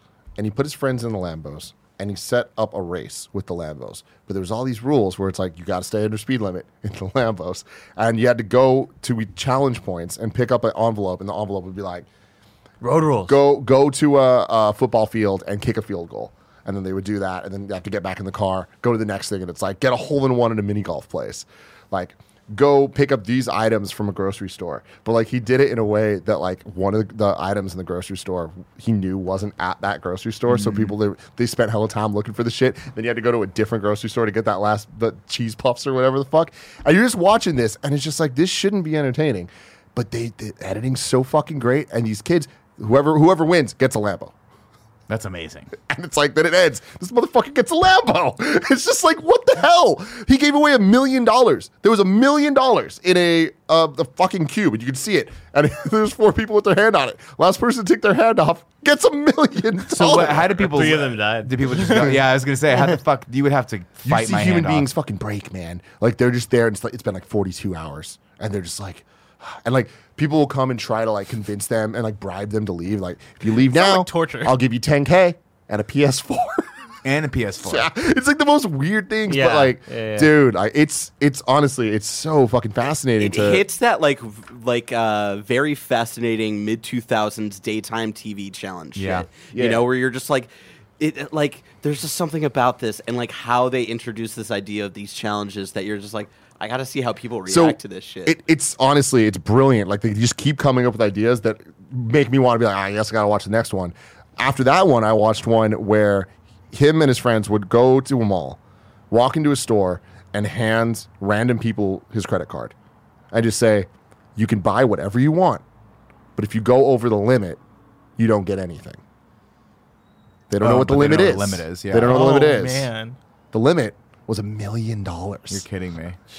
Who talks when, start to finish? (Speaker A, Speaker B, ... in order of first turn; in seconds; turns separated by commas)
Speaker A: 0.4-12.1, Speaker B: 12.8-13.4, Speaker A: 13.3-44.3, Speaker C: 30.5-30.9, Speaker C: 45.1-45.7, Speaker A: 45.9-60.8, Speaker C: 59.9-64.9, Speaker B: 60.1-62.1, Speaker A: 64.0-76.7, Speaker D: 73.5-74.5, Speaker C: 77.0-77.9, Speaker A: 77.6-83.6, Speaker B: 79.3-80.3, Speaker E: 83.2-98.3, Speaker C: 88.9-89.3, Speaker A: 89.5-89.8, Speaker A: 97.5-108.6, Speaker A: 109.1-112.7, Speaker A: 113.3-115.6, Speaker A: 116.3-117.6, Speaker A: 118.2-119.0, Speaker A: 120.5-122.9, Speaker C: 120.6-122.3, Speaker D: 122.0-123.2, Speaker A: 123.5-125.6, Speaker C: 125.5-126.2